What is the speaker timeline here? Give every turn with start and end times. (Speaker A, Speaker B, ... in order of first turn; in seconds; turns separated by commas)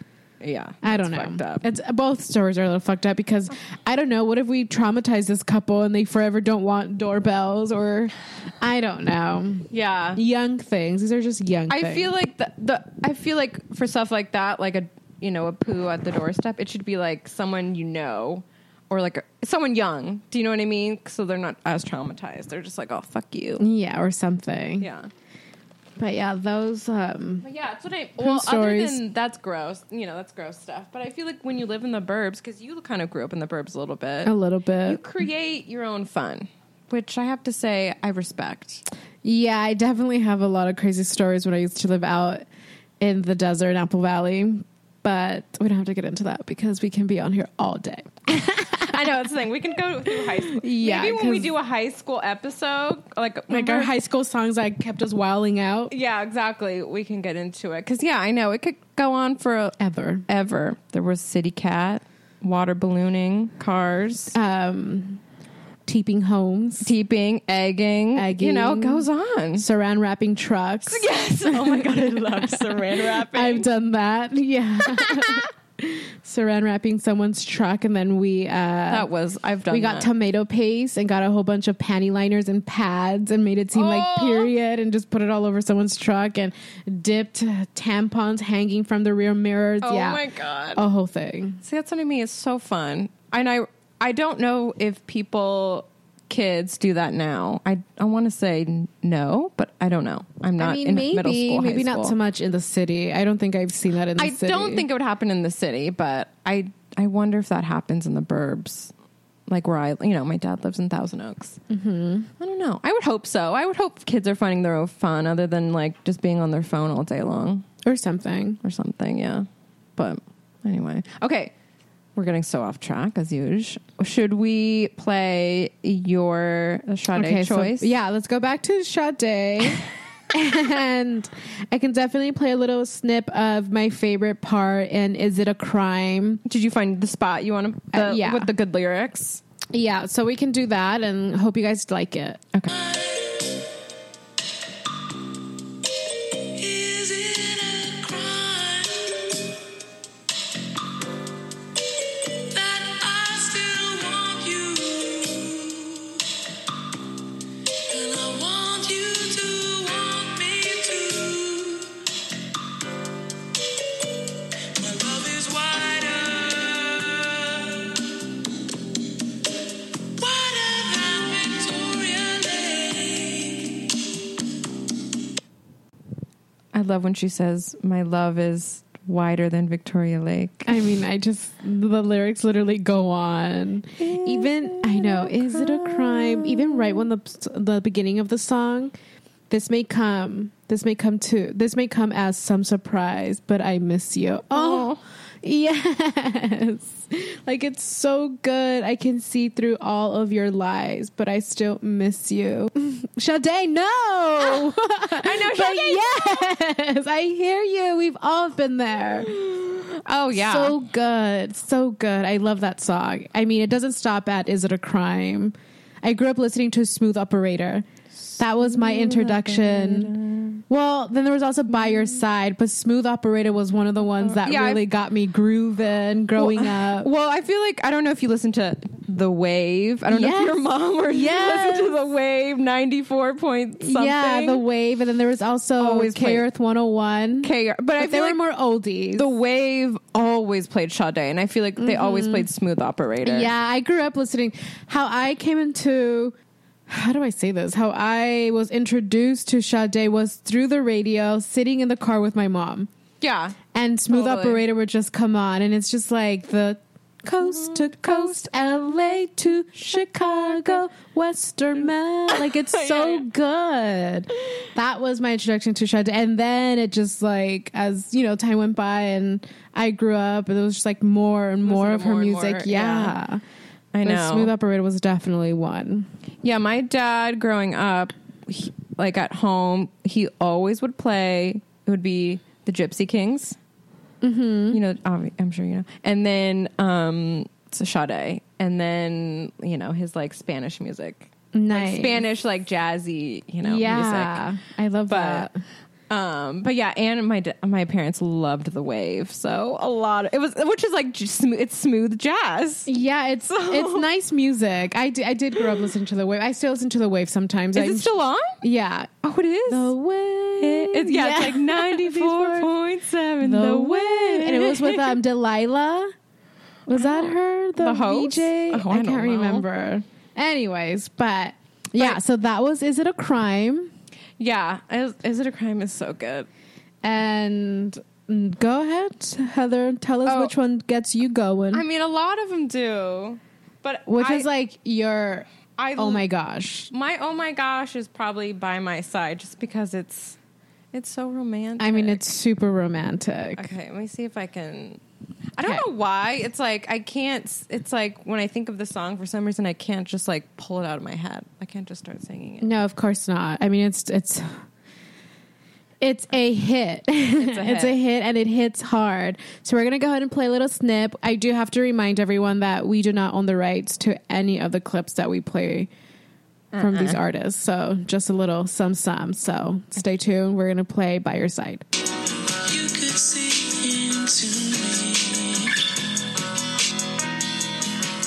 Speaker A: 0.4-1.6, Speaker B: 0.8-12.1, Speaker A: 9.7-10.2, Speaker A: 11.7-23.6, Speaker B: 23.6-24.9, Speaker A: 24.8-25.1, Speaker B: 26.0-27.5, Speaker A: 27.4-34.3, Speaker B: 28.2-29.0, Speaker B: 34.2-35.0, Speaker A: 34.9-38.8, Speaker B: 39.2-42.5, Speaker B: 43.0-49.2, Speaker A: 48.7-53.9, Speaker B: 50.1-51.5, Speaker B: 53.5-55.9, Speaker A: 55.9-59.8, Speaker B: 59.8-60.2, Speaker A: 60.3-64.3, Speaker B: 64.3-65.2, Speaker B: 65.9-66.9, Speaker A: 66.8-69.7, Speaker B: 68.2-69.1, Speaker B: 69.6-79.1, Speaker A: 70.9-73.7, Speaker A: 74.9-75.5, Speaker A: 78.9-80.1, Speaker B: 79.7-90.2, Speaker A: 83.7-84.5, Speaker A: 89.8-90.8, Speaker B: 90.8-91.6, Speaker A: 91.6-102.2, Speaker B: 100.6-104.9, Speaker A: 104.2-108.9, Speaker A: 109.5-111.6, Speaker B: 111.7-112.3, Speaker A: 112.4-117.7, Speaker B: 117.8-118.6, Speaker A: 118.6-121.5, Speaker A: 122.2-127.9, Speaker B: 127.1-136.4, Speaker A: 136.5-139.4, Speaker B: 137.9-138.5, Speaker B: 139.7-142.4, Speaker C: 142.7-143.5, Speaker C: 146.5-149.4, Speaker C: 152.5-156.2, Speaker C: 157.9-162.0, Speaker C: 164.7-168.0, Speaker C: 170.2-173.9, Speaker A: 176.7-180.9, Speaker B: 180.7-188.9, Speaker A: 184.0-187.1, Speaker B: 189.5-209.3, Speaker A: 194.5-195.0, Speaker A: 204.5-206.6, Speaker A: 209.2-210.8, Speaker B: 210.3-217.9, Speaker A: 218.2-220.6, Speaker B: 218.4-220.1, Speaker B: 220.7-227.1, Speaker A: 221.7-222.2, Speaker A: 224.2-224.8, Speaker A: 226.4-234.6, Speaker B: 230.1-232.0, Speaker B: 233.8-239.3, Speaker A: 235.8-236.5, Speaker A: 237.4-238.4, Speaker A: 239.2-243.5, Speaker B: 241.8-242.5, Speaker B: 243.2-246.3, Speaker B: 246.9-252.9, Speaker A: 253.2-253.6, Speaker B: 253.7-273.4, Speaker A: 254.1-254.6, Speaker A: 257.4-258.4, Speaker A: 260.0-260.8, Speaker A: 262.3-263.3, Speaker A: 271.6-273.2, Speaker A: 273.9-274.5, Speaker B: 274.0-276.1, Speaker A: 276.4-283.6, Speaker B: 284.2-284.8, Speaker A: 284.7-294.5, Speaker B: 291.5-292.2, Speaker B: 293.6-295.6, Speaker A: 295.1-295.5, Speaker A: 296.1-302.9, Speaker B: 302.9-309.1, Speaker A: 303.5-304.1, Speaker A: 305.6-305.9, Speaker A: 307.8-308.6, Speaker A: 309.2-309.9, Speaker B: 309.7-312.7, Speaker A: 310.6-315.2, Speaker B: 313.4-316.1, Speaker B: 316.9-323.9, Speaker A: 316.9-319.7, Speaker A: 324.4-326.5, Speaker B: 327.0-331.8, Speaker A: 330.2-330.5, Speaker A: 331.7-334.5, Speaker B: 334.1-336.9, Speaker A: 335.8-336.3, Speaker A: 336.9-340.4, Speaker A: 340.9-342.2, Speaker B: 341.8-343.7, Speaker A: 343.6-345.0, Speaker A: 345.6-352.7, Speaker B: 352.6-354.6, Speaker B: 356.0-365.9, Speaker A: 357.4-358.0, Speaker A: 366.7-367.2, Speaker B: 366.8-371.8, Speaker C: 372.6-375.8